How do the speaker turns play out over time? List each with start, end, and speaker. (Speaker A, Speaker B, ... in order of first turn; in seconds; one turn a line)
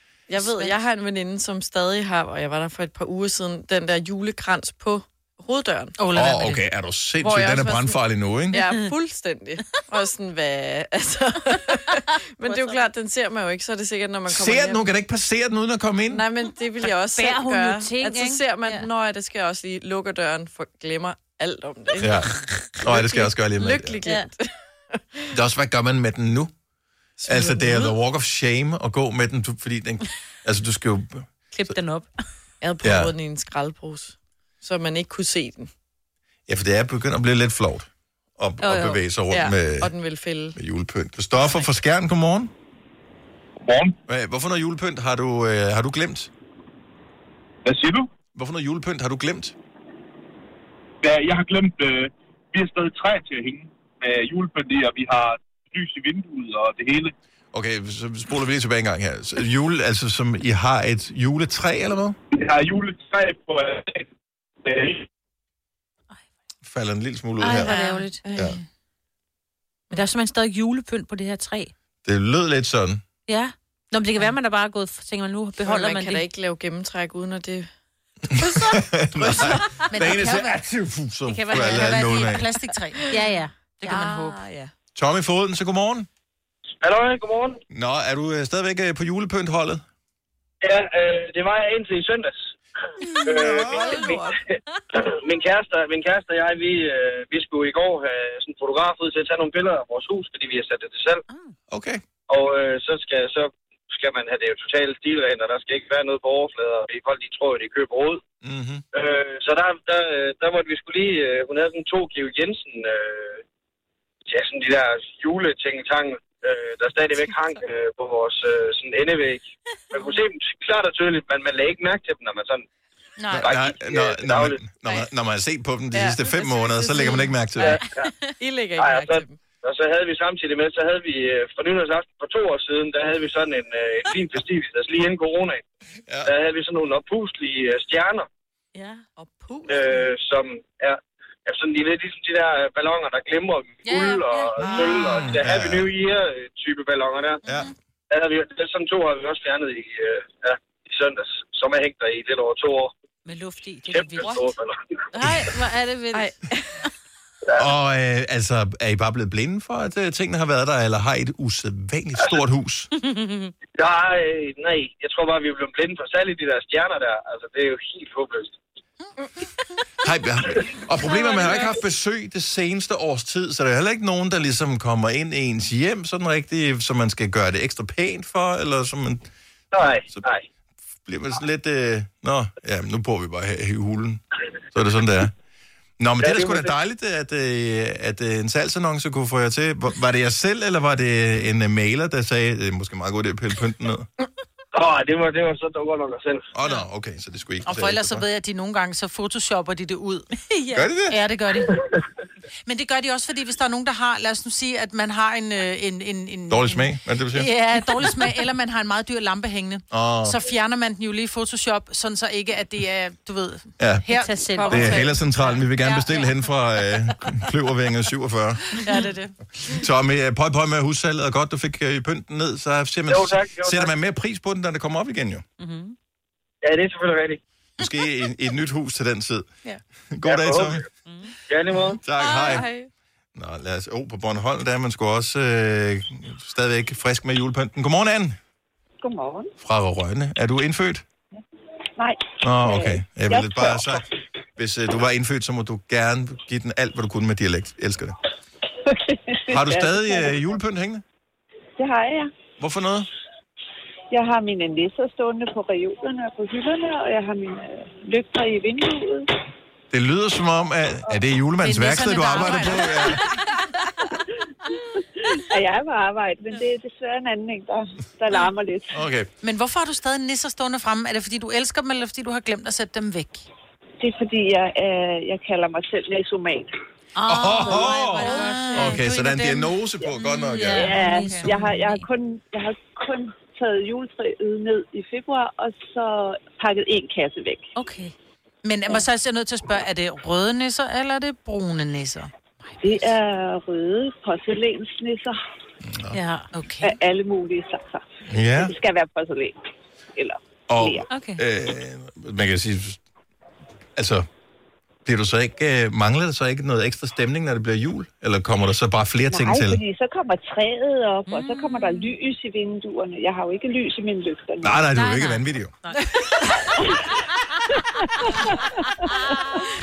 Speaker A: 0.3-6.0
Speaker B: 0.3-0.7
Speaker C: 6.0-6.6
Speaker D: 6.1-8.6
Speaker A: 7.2-8.0
Speaker A: 8.5-14.9
Speaker B: 12.4-12.9
Speaker D: 14.3-16.2
Speaker A: 16.1-22.3
Speaker B: 17.1-18.9
Speaker D: 22.0-24.0
Speaker A: 22.8-25.3
Speaker D: 25.3-26.5
Speaker A: 27.2-27.9
Speaker D: 27.2-31.7
Speaker B: 31.5-32.1
Speaker A: 32.6-35.7
Speaker D: 32.8-33.1
Speaker D: 36.5-39.9
Speaker B: 38.6-39.0
Speaker A: 39.3-40.6
Speaker D: 40.5-42.5
Speaker E: 43.6-44.0
Speaker D: 44.1-46.3
Speaker E: 47.6-48.1
Speaker D: 48.3-49.5
Speaker E: 51.0-57.1
Speaker D: 57.5-62.2
Speaker E: 62.3-64.1
Speaker E: 64.6-65.0
Speaker D: 66.7-67.7
Speaker B: 67.4-68.2
Speaker C: 67.7-68.1
Speaker A: 68.2-68.6
Speaker D: 68.3-68.6
Speaker B: 69.9-71.7
Speaker D: 72.0-73.0
Speaker B: 73.3-76.2
Speaker A: 75.6-77.7
Speaker D: 78.3-82.5
Speaker C: 79.2-80.6
Speaker B: 81.3-82.3
Speaker C: 81.5-83.1
Speaker B: 83.1-84.6
Speaker C: 83.8-84.4
Speaker A: 83.9-84.5
Speaker D: 85.0-86.1
Speaker F: 86.8-87.6
Speaker D: 87.7-89.8
Speaker F: 90.6-92.5
Speaker F: 93.2-101.2
Speaker D: 93.2-94.2
Speaker A: 93.7-94.2
Speaker D: 101.7-102.0
Speaker F: 102.3-108.2
Speaker D: 108.4-108.8
Speaker F: 108.9-113.4
Speaker F: 114.3-122.6
Speaker C: 123.2-123.5
Speaker D: 123.3-127.8
Speaker F: 123.4-124.6
Speaker A: 125.9-127.8
Speaker F: 127.6-128.1
Speaker A: 128.4-129.4
Speaker F: 128.8-135.6
Speaker F: 136.2-138.3
Speaker B: 138.8-139.0
Speaker A: 139.2-140.1
Speaker F: 139.7-147.4
Speaker B: 143.9-145.3
Speaker D: 145.0-145.9
Speaker D: 147.4-147.7
Speaker F: 148.1-152.9
Speaker B: 153.2-154.5
Speaker F: 153.9-155.0
Speaker B: 155.1-156.3
Speaker A: 156.1-156.8
Speaker D: 157.6-162.9
Speaker B: 163.0-163.5
Speaker F: 163.7-168.6
Speaker D: 170.0-179.3
Speaker B: 171.1-171.7
Speaker F: 179.7-180.4
Speaker D: 181.0-184.2
Speaker D: 184.7-185.3
Speaker D: 186.0-194.1
Speaker F: 186.2-186.7
Speaker F: 194.7-196.5
Speaker D: 196.5-198.2
Speaker C: 197.6-200.4
Speaker B: 200.5-200.9
Speaker D: 200.7-201.2
Speaker C: 201.1-201.8
Speaker C: 202.7-216.2
Speaker D: 206.5-207.5
Speaker D: 209.9-210.4
Speaker D: 213.8-214.0
Speaker B: 214.1-215.1
Speaker A: 214.6-215.0
Speaker D: 214.7-218.8
Speaker C: 218.7-219.4
Speaker D: 219.7-225.4
Speaker F: 223.1-223.9
Speaker B: 225.6-225.9
Speaker F: 226.6-227.4
Speaker D: 227.8-229.4
Speaker D: 230.1-230.8
Speaker F: 230.2-230.8
Speaker B: 231.1-231.3
Speaker F: 231.5-232.0
Speaker D: 232.0-232.7
Speaker A: 232.2-232.9
Speaker D: 233.4-238.4
Speaker G: 239.0-239.5
Speaker D: 239.6-241.0
Speaker G: 242.0-243.9
Speaker D: 242.4-248.2
Speaker G: 249.1-250.5
Speaker D: 249.5-251.0
Speaker G: 251.8-252.3
Speaker D: 252.6-253.1
Speaker G: 254.1-259.3
Speaker D: 259.9-263.3
Speaker C: 261.6-263.2
Speaker G: 265.2-269.0
Speaker D: 268.9-269.3
Speaker C: 269.4-273.5
Speaker G: 274.0-276.7
Speaker B: 277.2-279.0
Speaker D: 277.2-281.0
Speaker C: 277.4-279.7
Speaker B: 280.1-282.1
Speaker G: 280.8-287.7
Speaker C: 280.8-281.5
Speaker B: 287.8-288.1
Speaker C: 288.6-292.3
Speaker G: 292.8-295.4
Speaker D: 295.8-296.2
Speaker B: 296.1-296.5
Speaker C: 296.5-297.0
Speaker G: 296.8-299.5
Speaker D: 298.3-298.7
Speaker G: 300.1-301.1
Speaker D: 300.7-303.0
Speaker B: 301.1-301.4
Speaker D: 303.9-304.3
Speaker D: 305.0-309.8
Speaker G: 309.3-314.9
Speaker B: 311.2-312.1
Speaker D: 314.6-315.7
Speaker B: 314.9-315.9
Speaker G: 316.7-317.1
Speaker G: 318.2-319.1
Speaker B: 319.1-319.7